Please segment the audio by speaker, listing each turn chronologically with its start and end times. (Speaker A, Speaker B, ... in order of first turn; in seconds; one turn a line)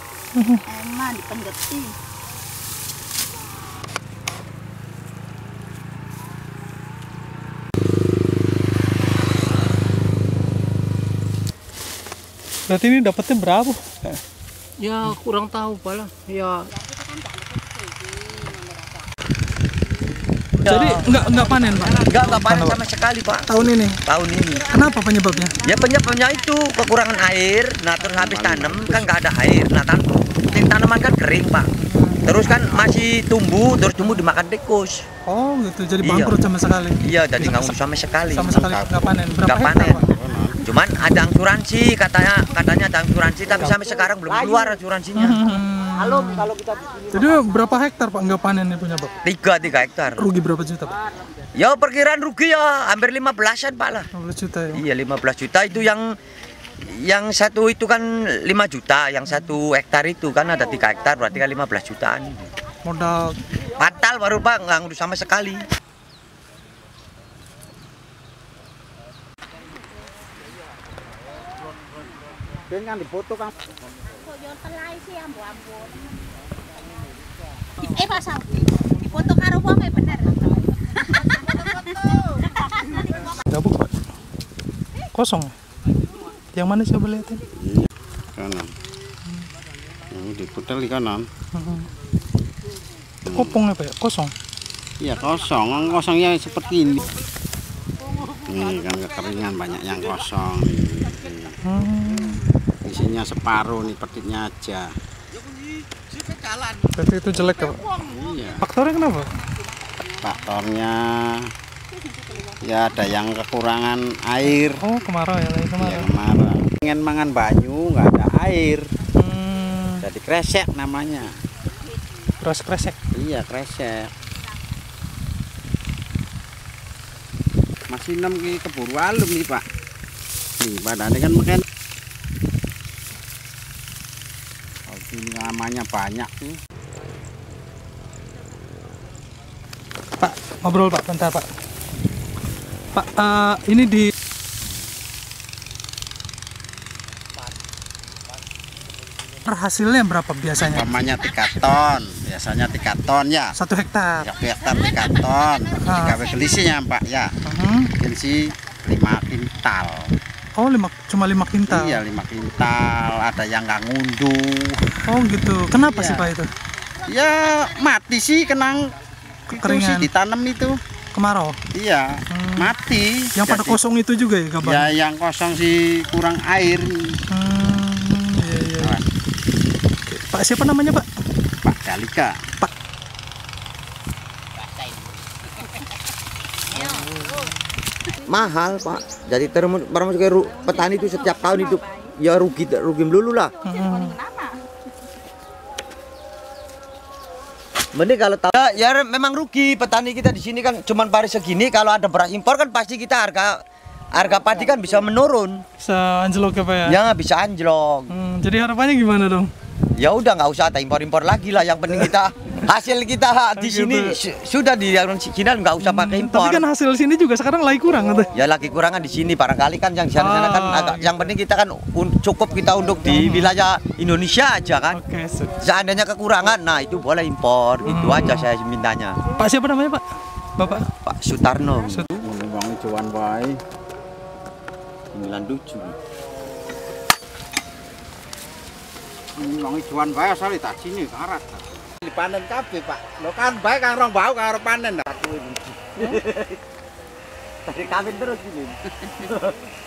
Speaker A: 0.3-0.6
Speaker B: 0.7-1.9
Speaker A: 12.7-13.8
Speaker C: 14.8-16.7
Speaker B: 16.8-18.8
Speaker A: 20.6-22.8
Speaker D: 22.1-23.5
Speaker A: 23.4-24.0
Speaker D: 24.1-24.7
Speaker A: 24.6-25.6
Speaker D: 25.6-31.7
Speaker E: 28.1-29.1
Speaker A: 31.9-32.4
Speaker D: 32.2-35.0
Speaker E: 32.6-32.9
Speaker A: 34.0-34.2
Speaker A: 35.3-37.8
Speaker D: 36.0-36.4
Speaker D: 37.0-38.8
Speaker A: 38.3-40.0
Speaker E: 38.6-39.1
Speaker D: 39.4-40.0
Speaker E: 40.0-40.6
Speaker D: 40.6-45.4
Speaker A: 45.1-46.5
Speaker A: 47.1-49.2
Speaker D: 49.2-50.3
Speaker A: 50.1-50.9
Speaker D: 51.5-54.1
Speaker A: 54.1-54.8
Speaker D: 54.7-56.1
Speaker D: 56.9-62.5
Speaker A: 59.3-59.5
Speaker A: 62.8-63.4
Speaker D: 63.8-65.7
Speaker E: 72.7-73.5
Speaker B: 74.5-75.9
Speaker B: 77.9-80.3
Speaker A: 83.5-84.0
Speaker A: 85.1-85.5
Speaker A: 86.5-87.4
Speaker E: 87.6-88.7
Speaker E: 90.1-91.2
Speaker A: 91.5-91.9
Speaker E: 93.3-93.5
Speaker A: 93.3-94.3
Speaker E: 95.0-97.1
Speaker E: 98.4-101.6
Speaker A: 101.6-102.4
Speaker E: 102.8-104.9
Speaker A: 106.9-107.9
Speaker E: 107.9-108.7
Speaker A: 108.6-109.4
Speaker E: 110.2-111.5
Speaker E: 112.6-114.8
Speaker A: 114.4-116.1
Speaker E: 115.8-118.8
Speaker A: 119.1-120.0
Speaker E: 120.0-121.3
Speaker A: 122.4-123.0
Speaker E: 123.1-124.1
Speaker E: 127.9-129.6
Speaker E: 130.6-131.6
Speaker E: 134.9-136.6
Speaker A: 140.2-141.5
Speaker A: 142.9-144.1
Speaker A: 149.4-150.9
Speaker E: 150.6-153.5
Speaker A: 153.5-154.3
Speaker E: 154.2-157.3
Speaker A: 155.8-156.2
Speaker A: 157.4-157.9
Speaker E: 158.0-160.1
Speaker A: 160.6-162.0
Speaker E: 161.7-165.0
Speaker A: 165.1-166.5
Speaker E: 165.7-166.3
Speaker E: 167.0-168.9
Speaker E: 169.5-170.8
Speaker A: 169.5-170.1
Speaker A: 171.1-171.6
Speaker E: 171.7-173.8
Speaker A: 172.3-172.7
Speaker A: 173.3-174.9
Speaker E: 174.6-177.2
Speaker A: 177.3-179.0
Speaker E: 178.8-179.0
Speaker A: 180.1-181.1
Speaker E: 181.6-182.4
Speaker D: 188.2-193.5
Speaker B: 190.6-191.9
Speaker A: 193.6-194.2
Speaker B: 193.7-194.5
Speaker D: 197.9-203.6
Speaker D: 204.1-205.6
Speaker A: 205.8-207.0
Speaker D: 206.8-208.1
Speaker A: 208.1-209.5
Speaker D: 210.0-216.6
Speaker A: 213.6-214.2
Speaker A: 215.8-218.3
Speaker D: 218.3-225.0
Speaker A: 220.2-221.2
Speaker A: 223.0-223.5
Speaker A: 224.9-225.5
Speaker D: 225.6-229.2
Speaker A: 227.8-228.5
Speaker A: 229.4-230.8
Speaker D: 230.9-232.1
Speaker A: 231.8-232.1
Speaker E: 232.2-233.6
Speaker D: 235.1-235.9
Speaker E: 239.4-245.2
Speaker D: 245.2-246.6
Speaker D: 247.7-249.5